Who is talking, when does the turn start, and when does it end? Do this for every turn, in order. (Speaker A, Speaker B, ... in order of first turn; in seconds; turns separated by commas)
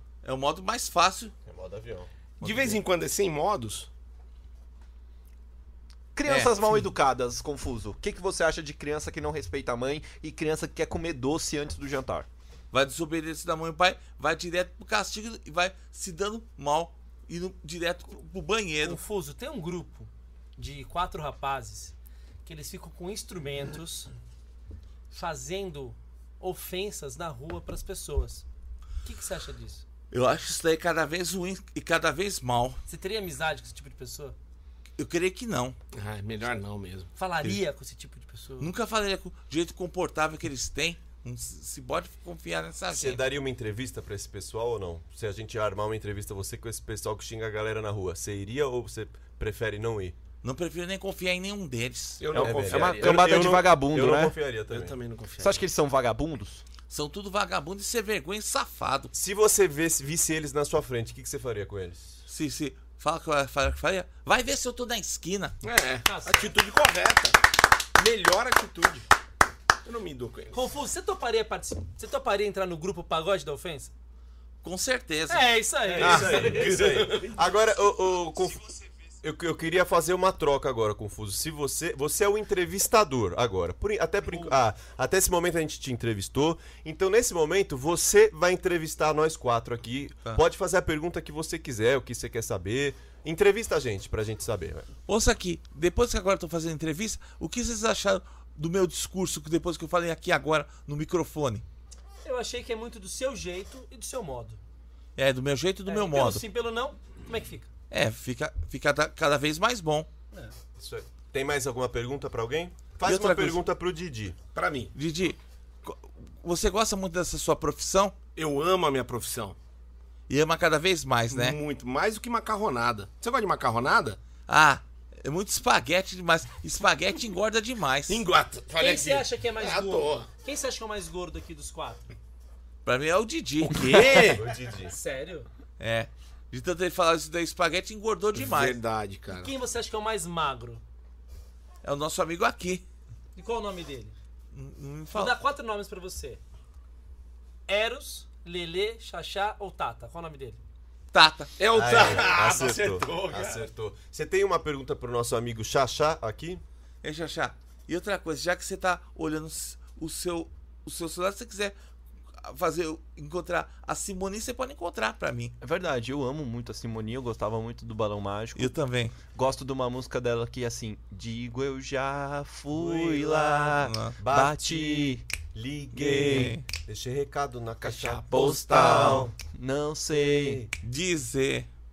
Speaker A: 0.2-1.3, Speaker B: 1.4-2.1, Speaker A: 2.4-2.8, Speaker C: 2.4-3.9, Speaker D: 6.1-12.3, Speaker A: 6.2-6.9, Speaker A: 12.7-19.0, Speaker E: 18.8-21.9, Speaker E: 22.4-24.1, Speaker E: 25.1-28.4, Speaker E: 29.0-29.8, Speaker A: 30.1-32.8, Speaker E: 32.9-34.4, Speaker A: 35.0-35.8, Speaker C: 35.9-37.1, Speaker E: 37.1-38.7, Speaker A: 38.6-43.2, Speaker B: 42.9-50.1, Speaker A: 50.4-52.2, Speaker C: 52.2-53.5, Speaker B: 52.3-54.9, Speaker D: 52.3-54.4, Speaker C: 54.7-55.7, Speaker D: 55.4-56.6, Speaker A: 56.9-59.1, Speaker B: 59.1-62.1, Speaker A: 62.3-65.5, Speaker C: 65.6-67.4, Speaker E: 66.0-66.5, Speaker C: 68.0-69.0, Speaker C: 69.8-70.5, Speaker E: 70.5-73.9, Speaker A: 74.6-75.5, Speaker E: 75.3-76.5, Speaker B: 75.9-94.9, Speaker C: 76.0-77.3, Speaker A: 95.1-101.6, Speaker E: 102.2-104.6, Speaker A: 105.2-106.4, Speaker E: 105.8-107.7, Speaker A: 107.9-110.1, Speaker B: 110.8-114.4, Speaker A: 113.0-113.6, Speaker C: 114.5-114.9, Speaker A: 114.9-118.1, Speaker C: 118.3-119.6, Speaker A: 120.3-121.6, Speaker C: 121.3-124.2, Speaker A: 124.5-128.2, Speaker C: 128.1-130.3, Speaker E: 128.8-132.1, Speaker A: 132.8-134.4, Speaker C: 133.7-134.4, Speaker B: 134.3-134.9, Speaker E: 134.9-135.5, Speaker A: 135.8-138.8, Speaker C: 138.3-139.5, Speaker E: 139.3-140.8, Speaker A: 141.8-142.8, Speaker E: 143.3-144.2, Speaker A: 144.5-145.3, Speaker E: 145.1-146.4, Speaker E: 147.7-150.6, Speaker A: 151.1-151.5, Speaker C: 151.6-153.6, Speaker B: 151.7-156.6, Speaker A: 157.0-161.7, Speaker A: 162.4-165.5, Speaker D: 165.6-175.2, Speaker A: 168.6-169.2, Speaker B: 172.7-173.4, Speaker A: 173.4-174.2, Speaker B: 174.2-179.3, Speaker A: 175.9-176.6, Speaker D: 176.3-176.5, Speaker D: 177.8-180.7, Speaker A: 178.7-179.2, Speaker B: 180.1-180.7, Speaker A: 180.8-181.7